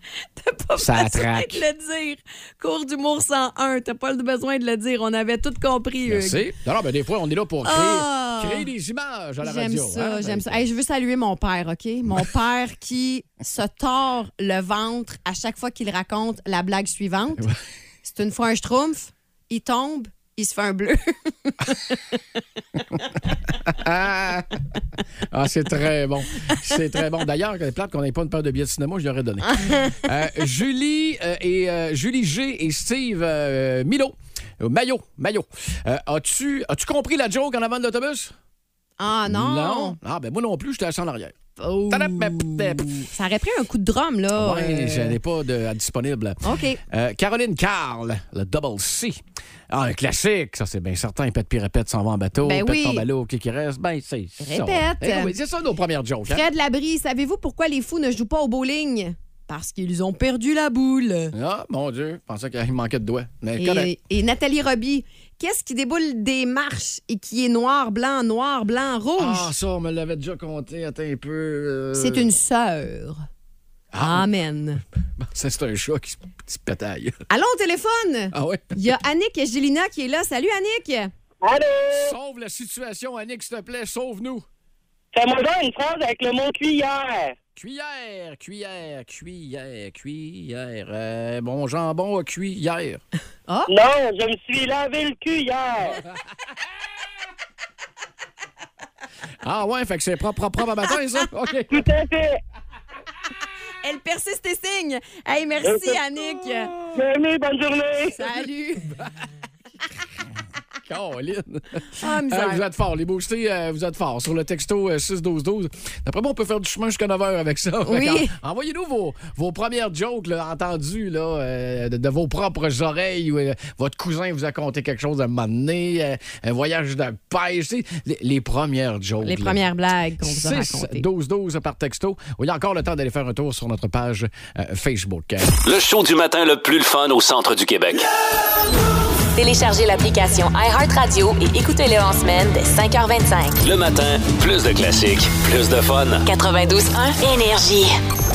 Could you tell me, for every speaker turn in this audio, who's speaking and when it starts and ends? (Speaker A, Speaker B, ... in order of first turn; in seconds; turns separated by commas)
Speaker A: 0.4-6.5, Speaker B: 0.8-1.6, Speaker B: 6.1-10.6, Speaker A: 7.6-8.7, Speaker A: 9.4-17.5, Speaker A: 18.0-22.0, Speaker B: 23.0-24.6, Speaker B: 25.3-38.3, Speaker A: 29.4-30.0, Speaker A: 39.0-40.0, Speaker B: 39.2-41.4, Speaker A: 41.6-45.2, Speaker B: 41.9-43.1, Speaker B: 44.3-56.4, Speaker A: 46.4-46.8, Speaker A: 52.4-53.0, Speaker A: 54.4-55.3, Speaker A: 56.3-61.3, Speaker B: 61.3-63.9, Speaker A: 63.6-69.5, Speaker B: 69.2-72.3, Speaker A: 71.9-73.2, Speaker B: 73.9-74.3, Speaker A: 74.0-74.8, Speaker B: 75.2-77.2, Speaker A: 77.3-81.1, Speaker B: 78.3-78.8, Speaker C: 81.4-82.1, Speaker B: 81.9-84.5, Speaker C: 85.1-87.4, Speaker B: 87.5-93.0, Speaker C: 93.7-96.0, Speaker B: 99.4-101.9, Speaker C: 101.7-102.4, Speaker A: 103.8-106.7, Speaker C: 105.6-106.0, Speaker C: 106.9-108.2, Speaker A: 108.1-109.0, Speaker B: 110.9-129.6, Speaker A: 111.9-112.6, Speaker A: 117.8-118.3, Speaker A: 129.2-131.1, Speaker B: 130.2-135.6, Speaker D: 135.6-138.1, Speaker E: 139.4-143.6, Speaker D: 143.6-146.2, Speaker E: 146.2-148.0